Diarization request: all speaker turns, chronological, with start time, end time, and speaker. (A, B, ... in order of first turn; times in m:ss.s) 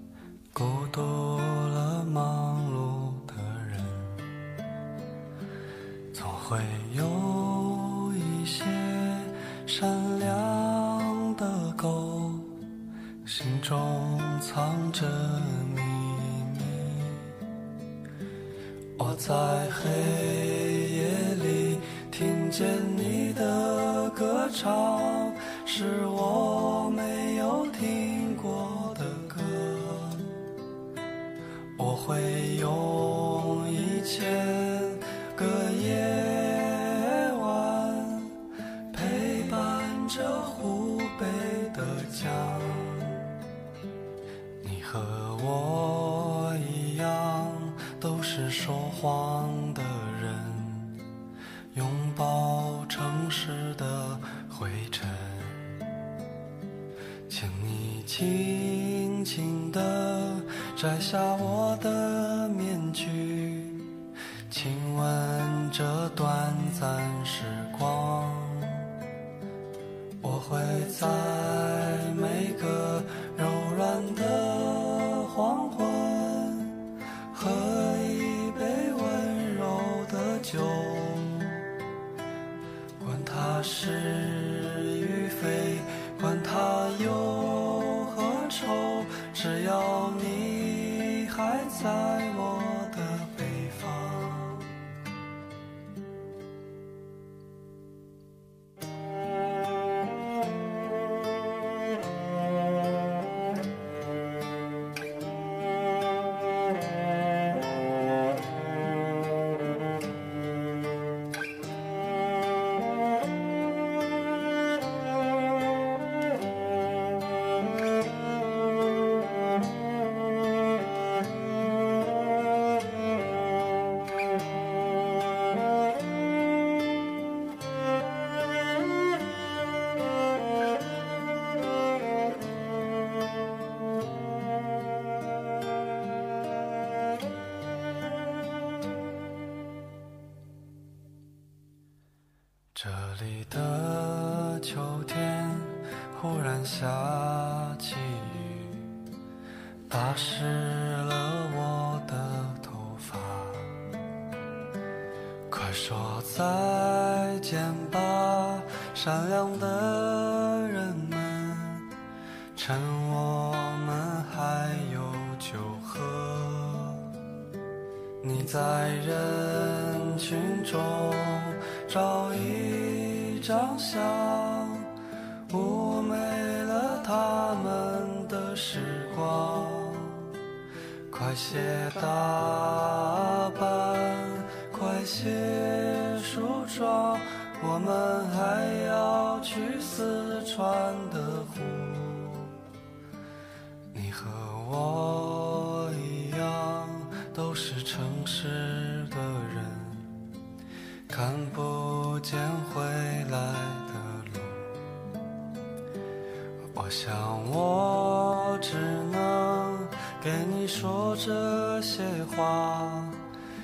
0:00.5-0:04.2 A
0:06.1-0:12.6 A
0:13.2-0:17.3 A
0:19.0-0:30.3 A
0:31.8-0:38.3 A
0:38.9-0:43.2 A
0:44.6-0:51.0 A
0:51.7-0:55.7 A
0:57.3-1:03.9 A
1:04.5-1:08.9 A
1:10.2-1:16.8 A
1:17.3-1:21.6 A
1:23.0-1:34.7 A
2:22.7-2:28.9 A
2:29.9-2:33.8 A
2:35.5-2:41.9 A
2:42.6-2:47.1 A
2:48.2-2:54.9 A
2:55.5-3:00.3 A
3:01.1-3:12.5 A
3:13.9-3:20.1 A
3:21.1-3:24.8 A
3:26.7-3:33.2 A